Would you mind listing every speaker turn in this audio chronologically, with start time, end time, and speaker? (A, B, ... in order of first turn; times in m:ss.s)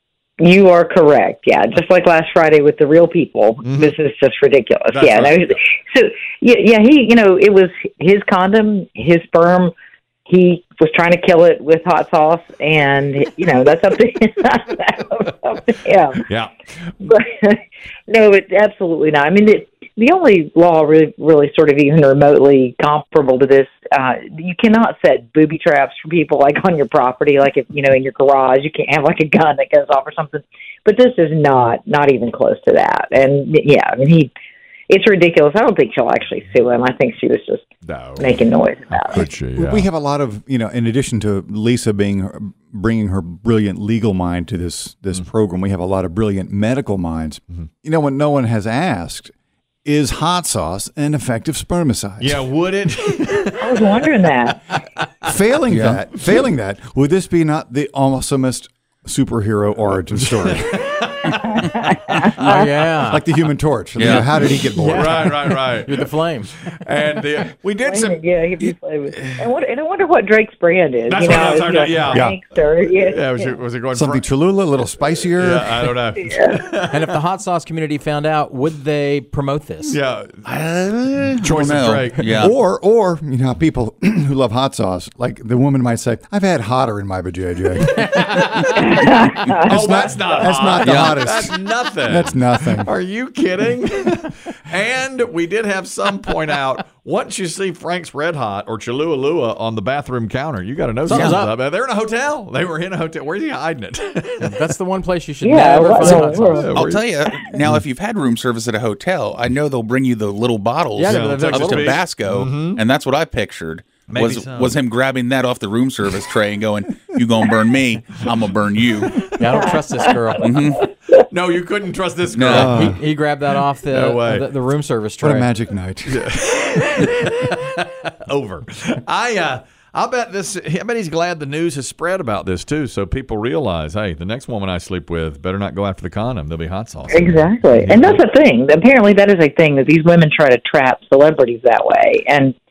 0:00.4-0:09.7 A
0:03.6-0:04.0 B
0:04.9-0:05.6 B
0:10.3-0:16.2 A
0:16.3-0:16.5 B
0:17.0-0:34.3 A
0:34.9-0:37.6 A
0:37.8-0:38.4 B
0:38.2-0:39.3 A
0:38.9-0:39.9 B
0:39.5-0:49.3 C
0:49.8-0:52.4 C
0:52.2-0:54.0 B
0:53.6-0:54.6 A
0:55.2-1:00.7 C
0:55.7-0:56.0 D
1:00.2-1:01.8 B
1:01.6-1:02.2 A
1:02.4-1:03.2 E
1:03.1-1:05.2 C
1:04.0-1:04.3 D
1:04.8-1:06.5 E
1:04.9-1:06.1 B
1:06.6-1:08.2 B
1:07.8-1:13.6 A
1:11.1-1:12.3 B
1:12.1-1:12.4 C
1:12.8-1:14.2 B
1:13.9-1:15.9 C
1:15.4-1:17.1 B
1:16.2-1:16.6 A
1:16.9-1:20.0 E
1:19.8-1:20.4 B
1:20.4-1:22.5 D
1:21.4-1:22.3 B
1:22.2-1:28.3 C
1:28.1-1:28.6 E
1:28.8-1:29.6 A
1:29.5-1:32.9 C
1:29.7-1:44.6 B
1:30.8-1:31.2 D
1:41.1-1:41.5 E
1:41.1-1:41.4 D
1:44.4-1:46.7 E
1:45.4-1:46.8 A
1:46.0-1:47.0 B
1:46.8-1:59.3 D
1:51.0-1:52.0 E
1:51.0-1:52.8 B
1:54.1-1:54.8 B
1:59.4-2:00.6 E
2:00.4-2:00.8 D
2:01.2-2:03.0 B
2:02.3-2:02.7 D
2:02.5-2:03.0 C
2:02.6-2:05.5 E
2:03.9-2:04.5 B
2:05.2-2:06.3 C
2:06.1-2:18.2 B
2:17.1-2:22.5 A